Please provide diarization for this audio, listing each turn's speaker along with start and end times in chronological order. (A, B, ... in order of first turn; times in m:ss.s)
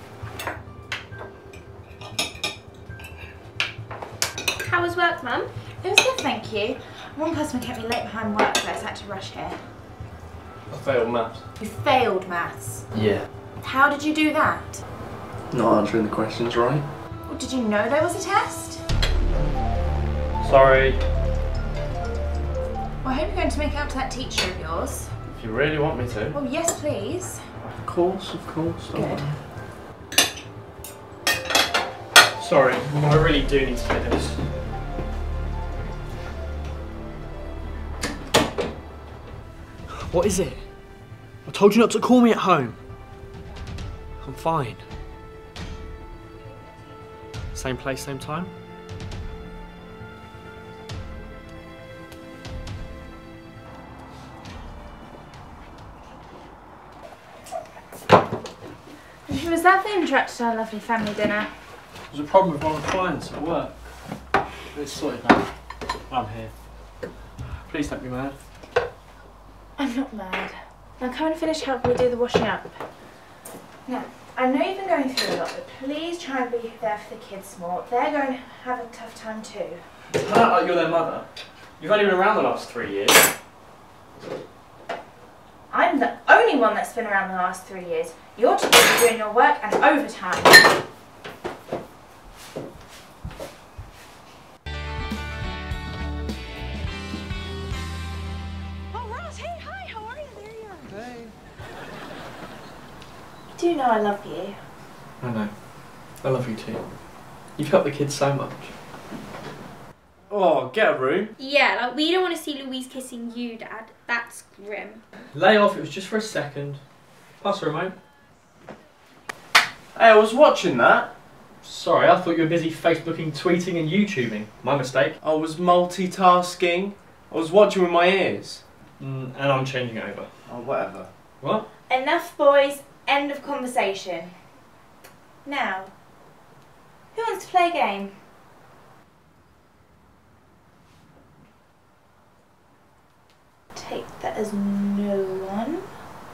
0:04.6-0:05.5 A
0:05.8-0:09.6 B
0:10.7-0:11.4 C
0:11.6-0:12.9 B
0:13.6-0:14.8 B
0:17.3-0:18.8 B
0:20.4-0:21.0 D
0:23.0-0:25.1 B
0:25.3-0:26.4 C
0:26.3-0:27.4 B
0:27.8-0:29.4 C
0:28.9-0:29.2 B
0:32.4-0:34.4 D
0:39.9-0:40.6 D
0:41.4-0:42.8 D
0:44.2-0:44.9 D
0:47.5-0:48.5 D
0:59.2-1:01.5 B
1:02.1-1:03.8 D
1:04.7-1:05.5 D
1:06.1-1:06.5 D
1:07.6-1:08.4 D
1:09.8-1:12.8 B
1:13.8-1:19.8 B
1:20.1-1:21.3 D
1:21.8-1:23.3 D
1:25.7-1:30.8 B
1:39.1-1:40.8 B
1:43.5-1:44.6 B
1:45.2-1:46.8 D
1:47.5-1:48.7 D
1:50.3-1:51.3 C
1:51.4-1:55.0 A
1:55.3-1:56.8 D
1:57.4-1:57.9 D
1:59.9-2:01.1 C
2:01.6-2:05.1 D
2:05.2-2:08.6 C
2:09.0-2:10.3 D
2:10.5-2:11.1 C
2:11.4-2:11.6 D
2:11.9-2:14.3 B
2:15.4-2:15.9 B
2:17.1-2:18.2 B
2:23.7-2:25.9 B